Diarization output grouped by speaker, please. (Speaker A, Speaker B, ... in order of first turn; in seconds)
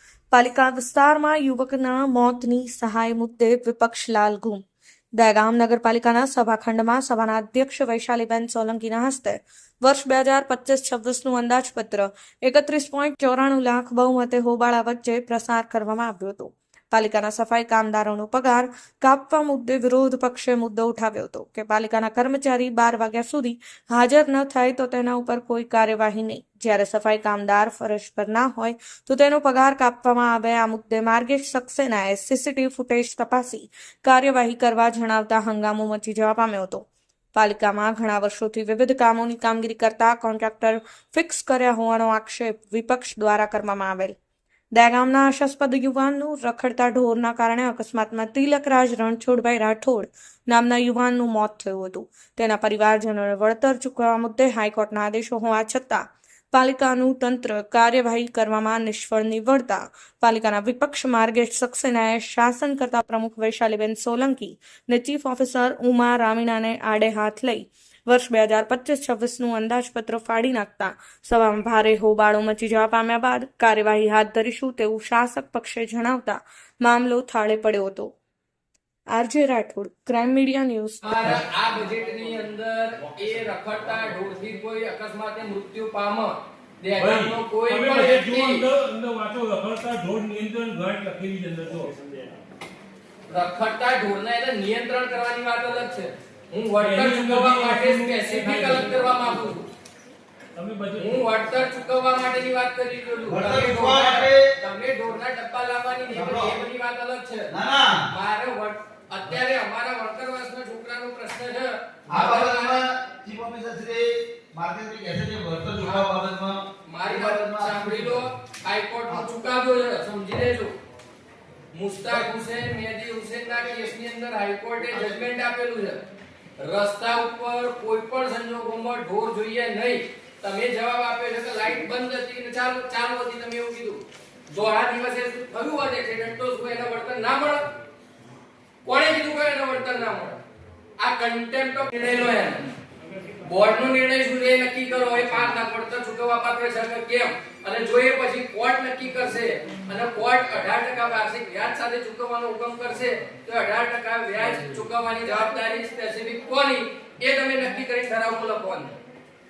Speaker A: 0.3-4.6, 5.2-44.2, 44.7-78.1, 79.1-81.3
Speaker B: 81.0-88.7, 93.3-99.7, 101.0-107.5, 108.1-112.8, 115.8-116.1, 116.8-120.7, 121.7-126.0, 126.6-137.6, 138.8-140.4, 141.0-142.7, 143.4-158.9
Speaker C: 87.0-91.9, 96.8-99.2, 100.5-101.2
Speaker D: 103.3-104.4, 106.1-106.5, 107.5-108.0, 112.1-118.2